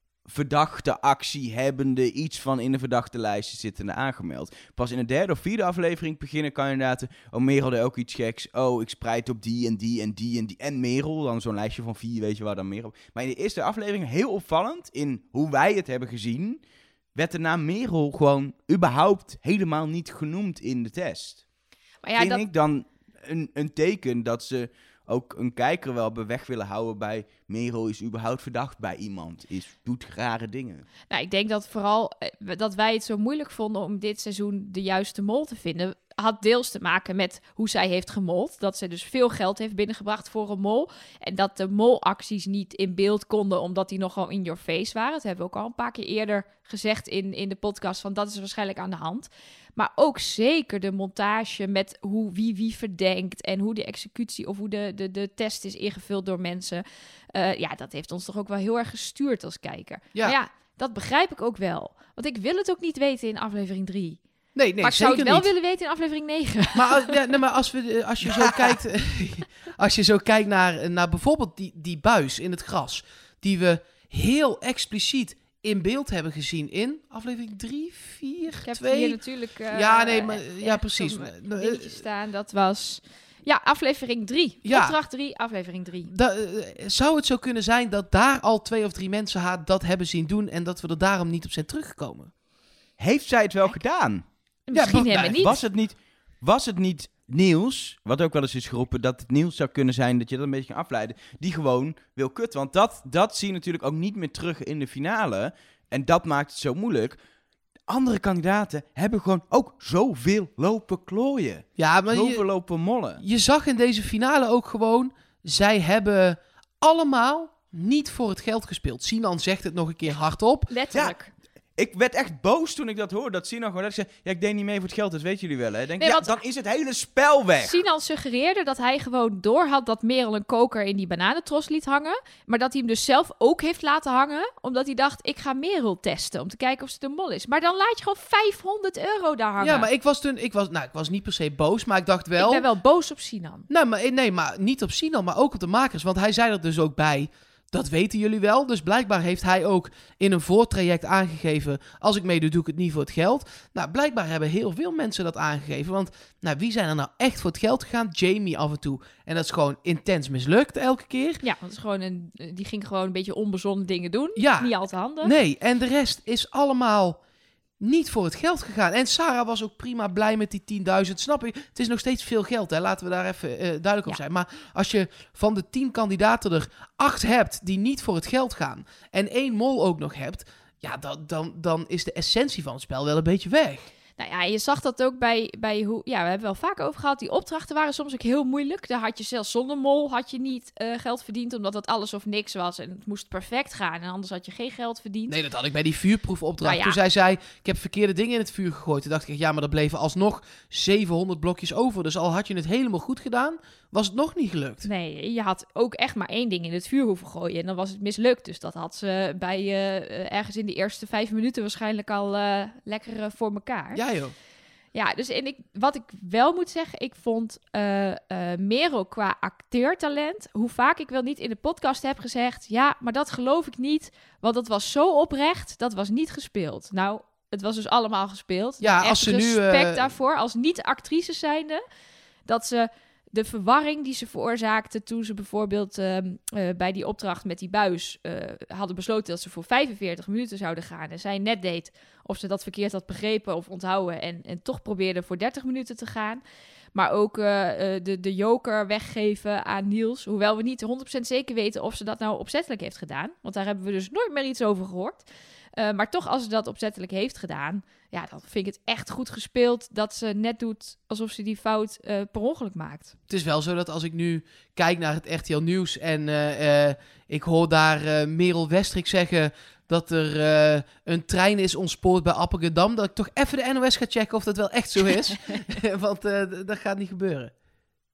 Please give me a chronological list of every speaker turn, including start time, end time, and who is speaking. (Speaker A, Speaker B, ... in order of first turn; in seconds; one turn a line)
Speaker A: 0.2-16.6
Speaker A: 17.1-21.4
Speaker B: 22.0-22.4
Speaker A: 22.2-30.9
Speaker B: 31.1-64.2
Speaker C: 64.6-65.5
Speaker B: 64.8-67.2
Speaker C: 66.7-79.2
Speaker B: 78.6-86.1
Speaker C: 79.7-82.0
Speaker C: 84.6-85.0
Speaker C: 86.1-92.3
Speaker A: 93.0-94.2
Speaker B: 94.7-95.6
Speaker C: 94.7-95.5
Speaker A: 95.1-107.2
Speaker A: 107.9-113.2
Speaker C: 111.8-112.5
Speaker C: 113.2-120.7
Speaker B: 120.7-121.3
Speaker A: 121.8-127.8
Speaker B: 126.0-126.4
Speaker B: 127.6-139.9
Speaker C: 139.6-142.7
Speaker B: 142.4-143.7
Speaker C: 143.7-161.4
Speaker B: 161.4-165.3
Speaker C: 164.4-164.7
Speaker C: 165.2-167.2
Speaker C: 167.8-183.9
Speaker B: 184.2-195.4
Speaker C: 195.3-204.9
Speaker B: 196.6-197.0
Speaker B: 204.8-214.0
Speaker C: 213.9-214.3
Speaker B: 214.9-231.8
Speaker C: 228.8-230.0
Speaker B: 232.5-246.4
Speaker B: 246.9-255.2
Speaker B: 255.8-263.1
Speaker C: 263.3-277.5